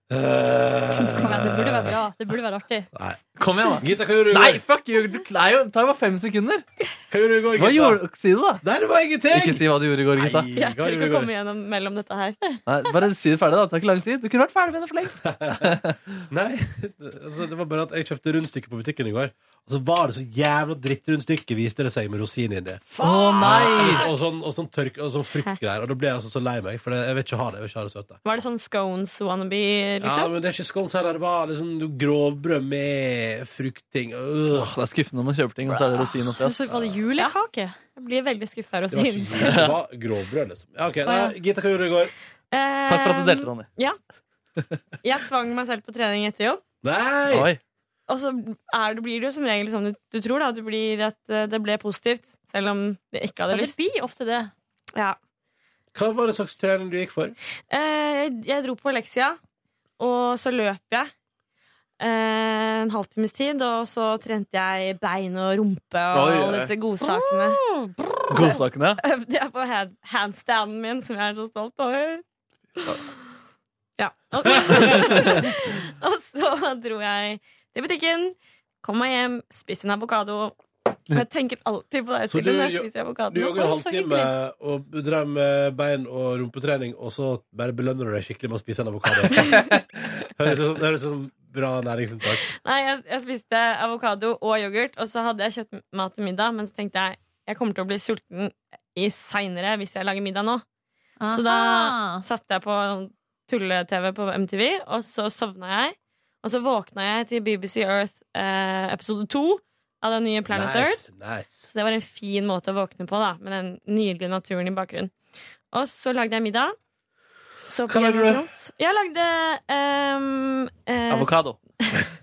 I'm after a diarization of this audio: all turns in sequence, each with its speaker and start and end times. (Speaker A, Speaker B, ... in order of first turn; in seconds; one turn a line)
Speaker A: 0.1-1.9
Speaker B: 1.1-2.9
Speaker A: 2.9-3.2
Speaker C: 3.4-6.7
Speaker A: 3.8-4.6
Speaker A: 7.1-8.0
Speaker C: 7.6-8.6
Speaker A: 8.6-11.3
Speaker C: 9.3-10.5
Speaker D: 10.6-12.4
Speaker C: 12.7-16.0
Speaker A: 15.2-28.2
Speaker C: 23.0-24.1
Speaker D: 23.3-24.1
Speaker D: 28.2-30.3
Speaker A: 30.0-34.7
Speaker C: 34.5-36.8
Speaker A: 35.7-36.0
Speaker B: 36.2-37.8
Speaker D: 38.0-39.7
Speaker A: 38.9-42.1
Speaker C: 39.4-39.8
Speaker B: 41.1-41.3
Speaker D: 42.5-44.0
Speaker C: 42.9-43.7
Speaker D: 45.0-46.6
Speaker A: 46.8-47.5
Speaker C: 47.3-47.6
Speaker D: 48.1-53.8
Speaker B: 53.5-54.5
Speaker A: 55.9-57.4
Speaker D: 57.7-59.4
Speaker D: 60.0-61.1
Speaker D: 62.0-67.7
Speaker C: 66.1-66.8
Speaker C: 68.3-69.0
Speaker D: 68.3-72.2
Speaker D: 74.0-80.6
Speaker A: 74.7-74.9
Speaker C: 75.0-75.3
Speaker D: 81.1-83.7
Speaker A: 82.3-89.8
Speaker B: 83.5-84.3
Speaker C: 89.3-90.3
Speaker A: 90.4-92.5
Speaker D: 92.5-100.7
Speaker B: 101.2-102.2
Speaker D: 101.3-111.0
Speaker A: 110.5-111.7
Speaker D: 111.7-115.1
Speaker D: 115.7-116.8
Speaker D: 117.7-122.0
Speaker A: 117.9-118.5
Speaker C: 121.1-121.6